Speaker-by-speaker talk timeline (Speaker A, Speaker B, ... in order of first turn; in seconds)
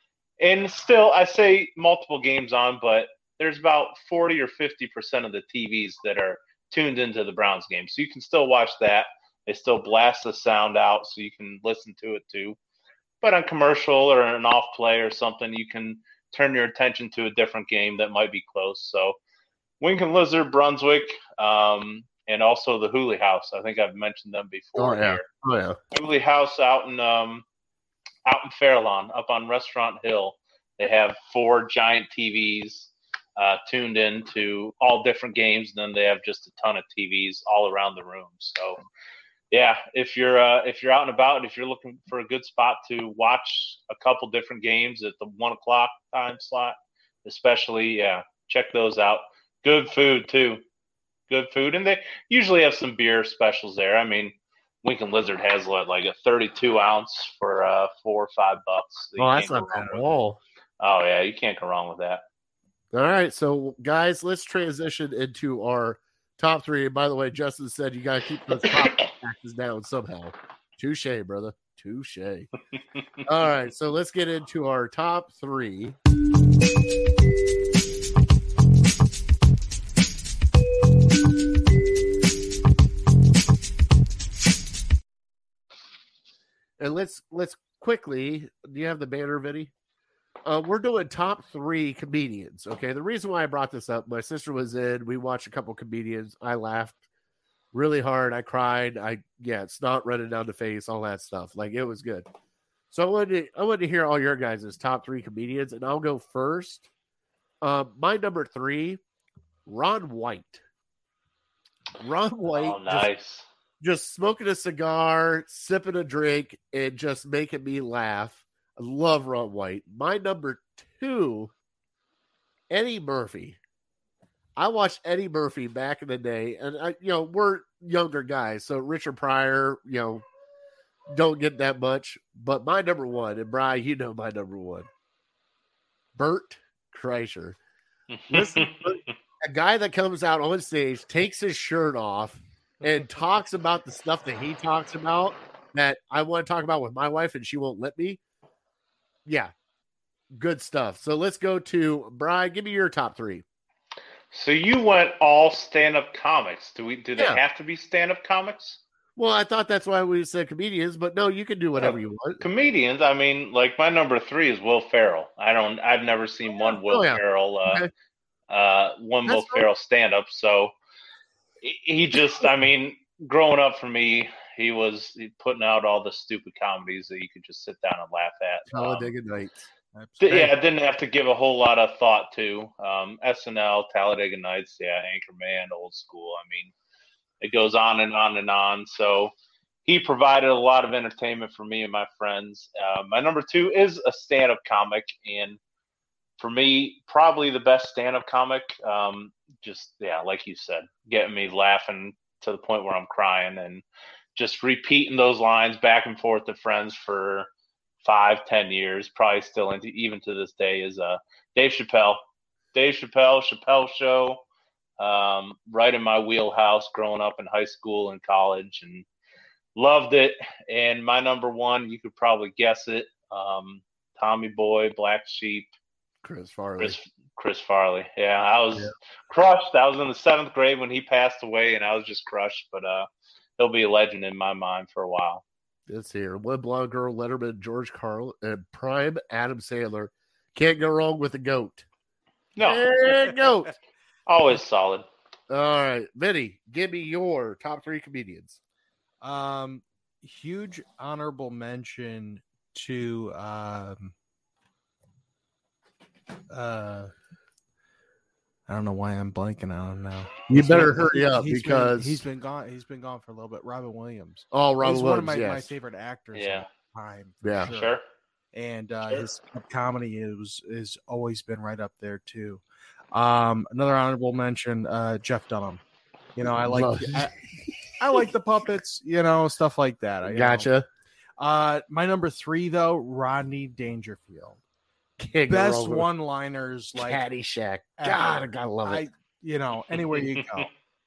Speaker A: 0.4-12.6, 13.2-19.2, 19.8-25.2, 25.9-27.4, 28.2-38.9, 39.5-50.6, 51.3-60.1, 60.8-62.2, 68.7-69.0, 112.5-113.5, 138.1-139.1, 154.3-158.8, 161.8-167.9, 168.5-170.7, 171.6-179.1, 180.2-186.7, 187.4-189.3, 189.8-195.6, 196.4-203.8, 204.4-207.5, 208.0-212.2, 212.7-214.4, 215.0-219.1, 219.8-225.7, 226.8-233.1, 233.6-235.4, 242.6-242.9, 244.3-245.1, 266.3-266.7, 267.7-268.0, 290.1-290.6
Speaker B: 24.8-25.8, 59.2-60.4, 62.9-72.5, 73.2-76.0, 86.8-89.7, 90.5-97.0, 97.7-102.3, 102.9-106.9, 107.6-109.0, 109.7-110.6, 112.0-113.1, 113.8-121.5, 122.7-123.6, 124.6-130.2, 131.1-134.9, 136.2-137.6, 138.3-148.2, 149.3-149.5, 150.3-153.4, 159.2-162.4, 166.6-167.9, 169.3-169.7, 178.7-179.7, 226.2-227.0, 235.9-241.9, 242.6-243.7, 245.5-248.6, 260.5-262.2, 264.5-265.7, 267.4-267.7, 276.6-278.0, 280.3-280.9, 285.2-286.1, 287.1-289.1
Speaker C: 179.9-180.5, 249.2-254.2, 256.5-257.1, 258.7-267.9, 268.5-275.8, 276.4-277.3, 278.0-280.7, 281.4-284.6, 285.5-287.2, 288.0-290.7